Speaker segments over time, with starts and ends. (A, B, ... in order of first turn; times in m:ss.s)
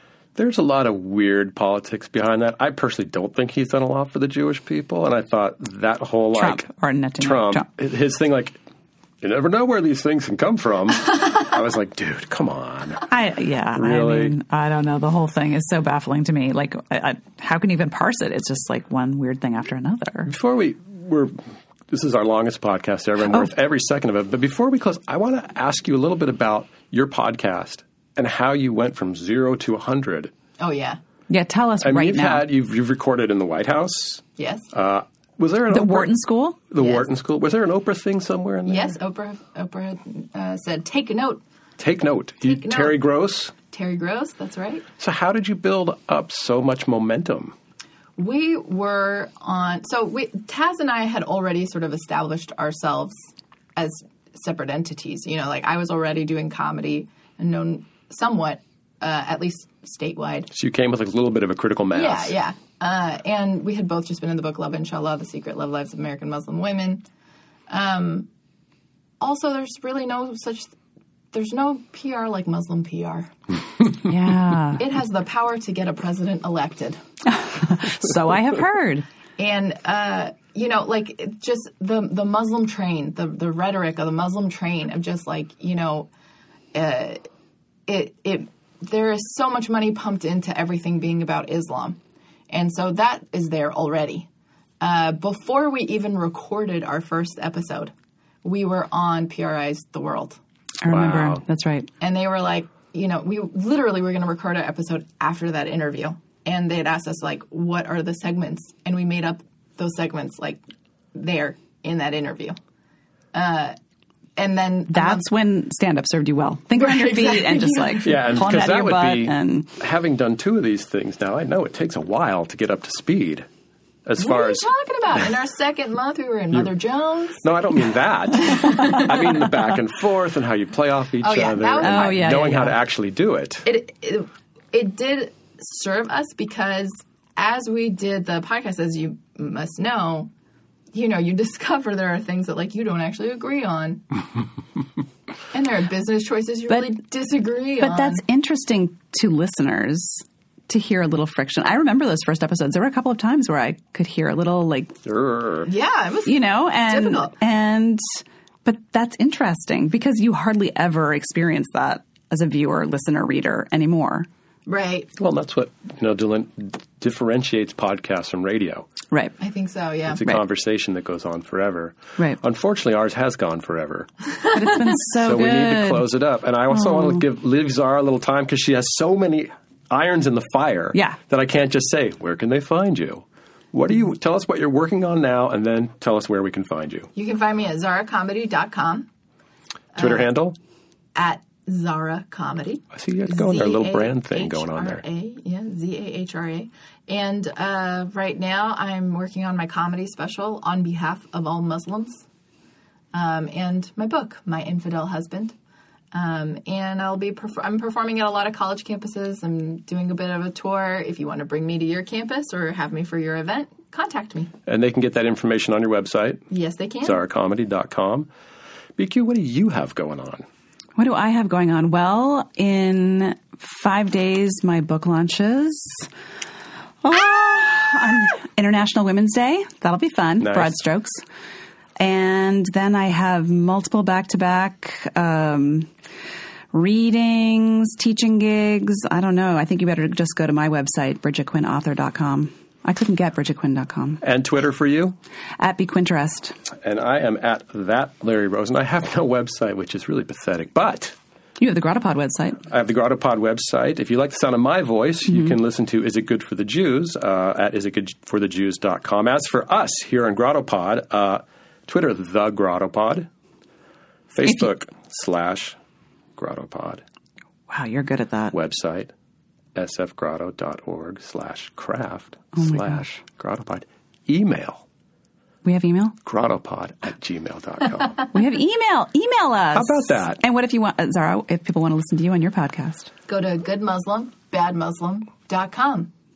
0:00.4-0:06.7 A
0:06.4-0:07.7 B
0:07.2-0:08.6 A
0:09.2-0:13.0 A
0:13.1-0:20.3 B
0:13.7-0:14.4 A
0:20.3-0:21.4 A
0:21.9-0:30.3 A
0:30.6-0:31.0 C
0:31.3-0:32.4 B
0:31.8-0:36.2 A
0:34.4-0:34.7 C
0:35.7-0:36.6 B
0:36.7-0:39.0 A
0:36.8-0:37.0 C
0:38.7-0:41.4 C
0:41.8-0:43.5 A
0:42.4-0:43.0 C
0:43.7-0:44.9 C
0:45.0-0:47.6 A
0:48.2-1:00.5 C
1:00.5-1:02.4 A
1:02.0-1:07.0 C
1:07.7-1:08.3 C
1:09.2-1:10.7 C
1:11.3-1:13.3 C
1:14.0-1:14.8 B
1:14.8-1:17.0 C
1:17.3-1:19.0 B
1:19.4-1:26.1 C
1:26.7-1:27.3 C
1:27.9-1:32.0 C
1:32.5-1:34.3 C
1:34.8-1:37.9 C
1:38.4-1:40.4 C
1:40.8-1:41.9 B
1:40.9-1:41.4 A
1:42.0-1:50.6 C
1:51.1-1:52.6 C
1:53.3-1:53.8 C
1:54.4-1:55.3 C
1:54.9-1:59.8 B
1:56.8-1:58.2 C
1:58.0-2:03.5 A
2:04.1-2:05.3 A
2:04.2-2:07.4 C
2:07.4-2:13.7 A
2:08.4-2:09.4 C
2:11.2-2:12.4 C
2:11.8-2:12.8 B
2:13.6-2:20.3 C
2:20.9-2:24.0 C
2:25.5-2:28.2 C
2:26.7-2:26.9 B
2:27.8-2:35.0 B
2:35.0-2:35.7 A
2:35.7-2:37.4 C
2:36.3-2:44.3 B
2:44.7-2:45.1 C
2:45.2-2:48.9 A
2:49.1-2:49.4 B
2:49.4-2:50.2 C
2:50.1-2:54.1 A
2:54.5-2:56.1 B
2:55.1-3:07.1 A
2:56.7-2:57.2 B
3:07.2-3:09.1 C
3:10.0-3:10.3 C
3:10.0-3:10.6 A
3:11.2-3:22.2 C
3:12.9-3:15.0 A
3:23.1-3:25.5 C
3:26.1-3:34.5 C
3:34.7-3:36.5 A
3:36.5-3:37.2 C
3:37.0-3:38.3 A
3:39.0-3:40.4 A
3:41.0-3:46.1 B
3:47.0-3:51.2 B
3:50.4-3:50.8 A
3:52.0-3:55.9 B
3:56.7-4:04.2 B
4:04.2-4:05.2 A
4:05.6-4:06.6 B
4:06.8-4:11.2 A
4:11.6-4:12.6 B
4:12.6-4:23.3 A
4:24.3-4:25.8 A
4:26.4-4:27.0 A
4:27.7-4:28.6 B
4:28.5-4:29.1 A
4:29.8-4:34.8 A
4:32.6-4:33.1 B
4:35.6-4:36.2 B
4:36.2-4:38.2 A
4:38.3-4:43.1 B
4:39.7-4:40.4 A
4:43.3-4:46.1 C